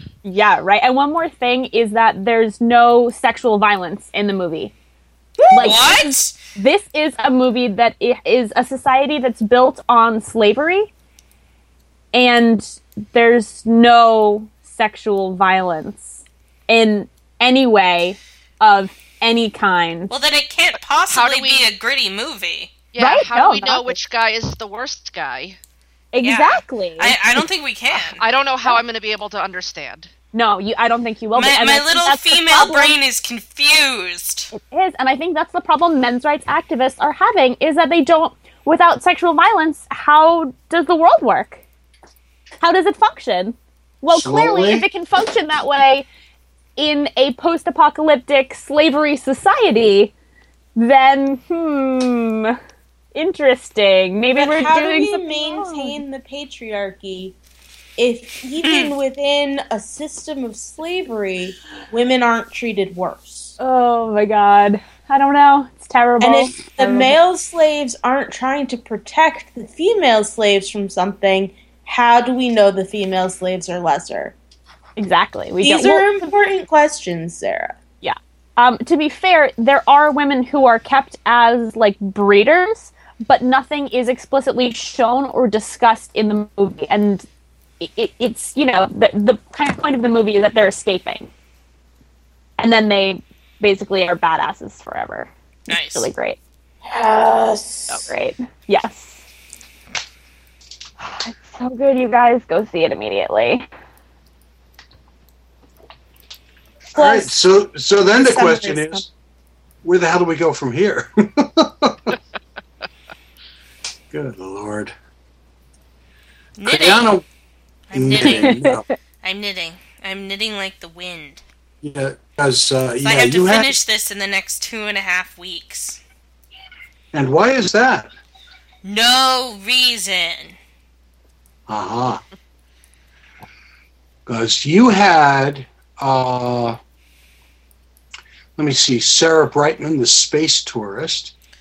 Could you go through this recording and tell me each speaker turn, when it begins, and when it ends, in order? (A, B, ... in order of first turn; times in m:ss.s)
0:00.2-0:04.7 A
0:05.5-0:10.9 A
0:05.5-0:05.8 B
0:05.6-0:06.4 C
0:12.1-0:20.1 A
0:20.1-0:22.7 C
0:21.1-0:21.6 D
0:22.9-0:25.6 D
0:23.0-0:24.0 A
0:26.1-0:27.2 A
0:26.2-0:28.2 C
0:27.9-0:30.1 D
0:30.3-0:33.0 A
0:31.4-0:34.5 C
0:34.5-0:41.6 A
0:42.6-0:46.1 A
0:44.1-0:44.9 E
0:46.8-0:50.1 A
0:50.8-0:52.6 A
0:53.1-0:56.0 A
0:54.4-0:57.4 B
0:58.0-1:03.6 B
0:58.6-0:58.9 C
1:03.6-1:07.2 A
1:06.2-1:14.3 B
1:15.0-1:16.1 A
1:15.6-1:17.8 B
1:18.0-1:27.3 A
1:27.8-1:31.3 A
1:32.6-1:36.4 A
1:35.7-1:36.1 C
1:36.9-1:38.1 B
1:37.9-1:39.2 A
1:41.0-1:43.7 A
1:46.9-1:49.1 E
1:47.0-1:47.3 B
1:48.2-1:49.0 B
1:49.8-1:52.1 E
1:54.1-1:55.0 E
1:56.6-1:57.2 C
1:56.6-1:57.3 E
1:57.9-1:58.6 C
1:57.9-1:58.8 E
1:58.2-1:58.9 A
1:59.2-2:01.4 C
2:01.8-2:03.8 E
2:03.0-2:06.0 C
2:07.1-2:08.1 E
2:08.8-2:10.6 C
2:11.7-2:12.2 E
2:14.3-2:16.8 E
2:18.6-2:21.3 E